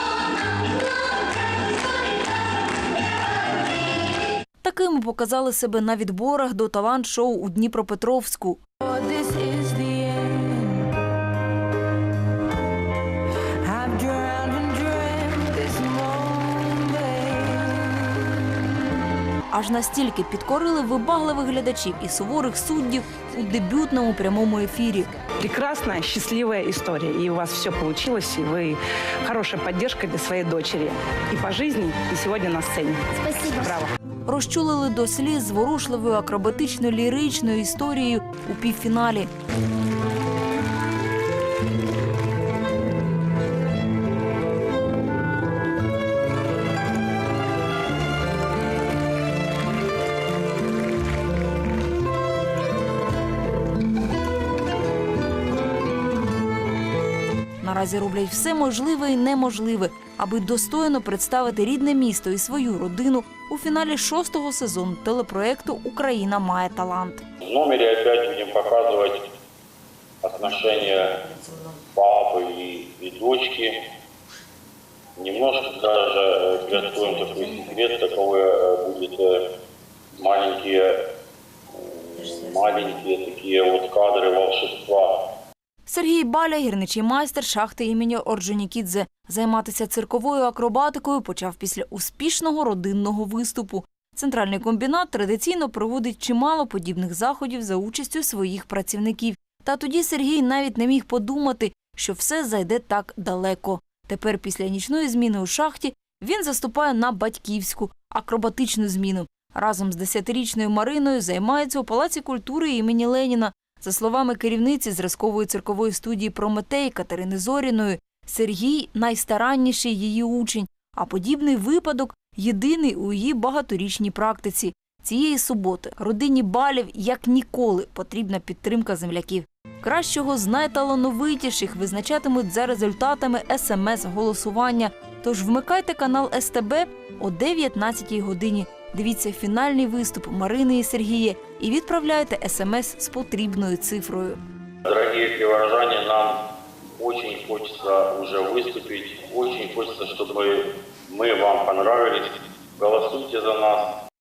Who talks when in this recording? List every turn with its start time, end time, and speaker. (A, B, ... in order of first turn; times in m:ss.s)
0:04.6-0:08.6 A
0:08.8-0:11.0 B
0:13.4-0:18.5 B
0:19.5-0:25.1 A
0:25.4-0:33.9 B
0:34.2-0:39.3 A
0:57.6-1:07.2 A
1:07.4-1:09.3 C
1:10.2-1:11.2 C
1:11.9-1:13.8 C
1:15.2-1:19.5 C
1:20.2-1:21.0 C
1:21.7-1:25.3 C
1:25.8-2:24.4 A
2:24.8-2:26.4 C
2:27.0-2:33.9 C